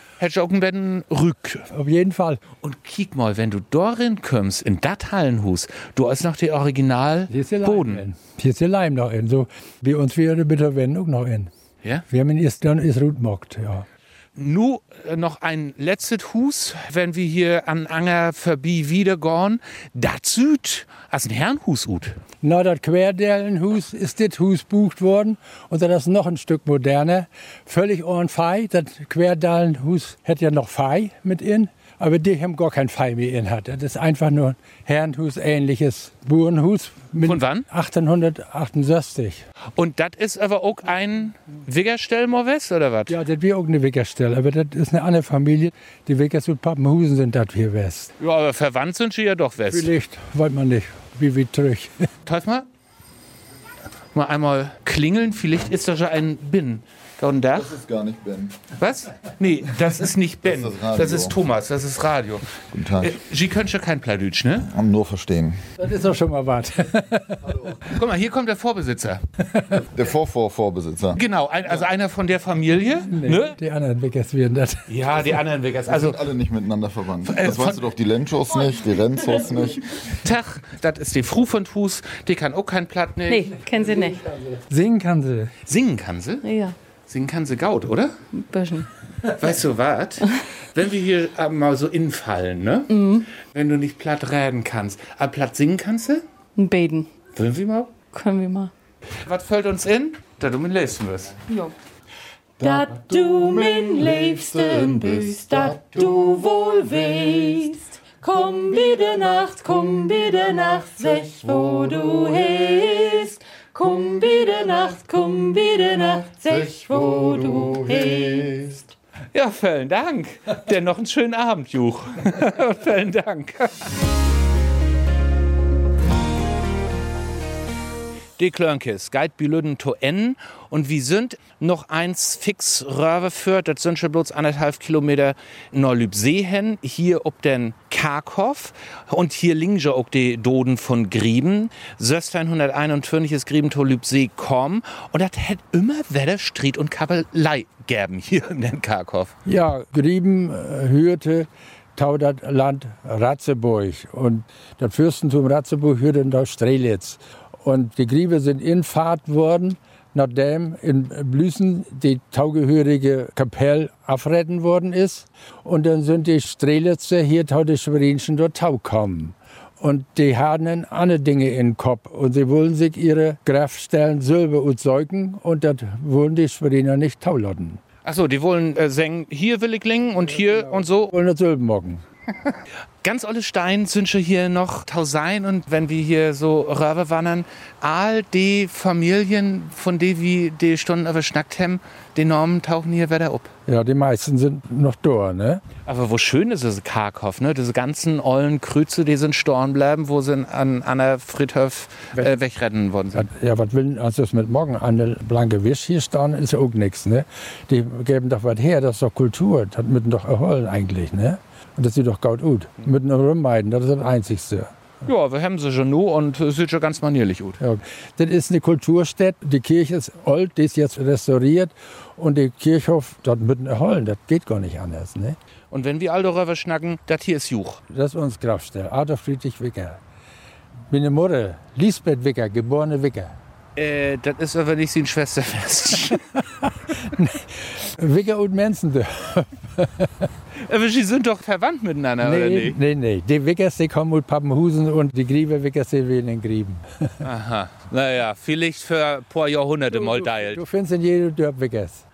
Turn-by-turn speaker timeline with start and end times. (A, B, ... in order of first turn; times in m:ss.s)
0:00.2-0:01.7 A
0:01.7-0:02.4 B
0:02.6-0:08.0 A
0:07.3-0:11.5 B
0:12.1-0:13.9 B
0:14.4-0:22.1 A
0:22.4-0:39.4 B
0:37.2-0:37.6 A
0:39.8-0:43.2 A
0:43.1-0:48.1 B
0:48.2-0:49.9 A
0:49.7-0:52.1 B
0:52.3-0:52.6 A
0:54.1-0:57.8 A
0:57.5-0:58.6 C
0:58.8-1:04.7 A
1:00.4-1:01.4 C
1:02.7-1:03.2 C
1:04.7-1:05.7 C
1:05.8-1:07.6 B
1:07.5-1:07.8 C
1:07.9-1:09.2 A
1:09.4-1:09.8 B
1:09.7-1:11.2 C
1:11.1-1:13.6 A
1:13.0-1:14.9 B
1:14.9-1:16.2 A
1:15.3-1:19.8 C
1:17.3-1:17.8 A
1:20.1-1:23.5 A
1:23.3-1:24.3 D
1:24.2-1:25.6 B
1:25.7-1:26.4 A
1:26.4-1:26.7 D
1:27.1-1:28.2 A
1:28.3-1:28.9 D
1:29.3-1:36.2 A
1:32.9-1:33.3 D
1:36.6-1:37.1 D
1:37.4-1:37.9 A
1:38.1-1:38.7 D
1:39.2-1:41.4 A
1:41.5-1:41.7 D
1:42.6-1:58.8 D
1:59.3-2:03.9 A
2:08.4-2:29.4 A
2:29.4-2:57.8 B
2:58.0-3:01.1 A
3:00.3-3:02.0 B
3:03.0-3:13.5 A
3:13.6-3:15.6 B
3:15.8-3:23.3 A
3:23.1-3:34.7 B
3:35.0-3:37.6 A
3:37.6-3:45.4 B
3:45.7-3:47.8 A
3:47.9-3:50.0 B
3:50.9-3:53.4 B
3:53.8-3:56.2 A
3:56.6-4:00.3 B
4:00.6-4:02.8 A
4:02.2-4:07.2 B
4:07.2-4:10.6 A
4:09.9-4:12.0 B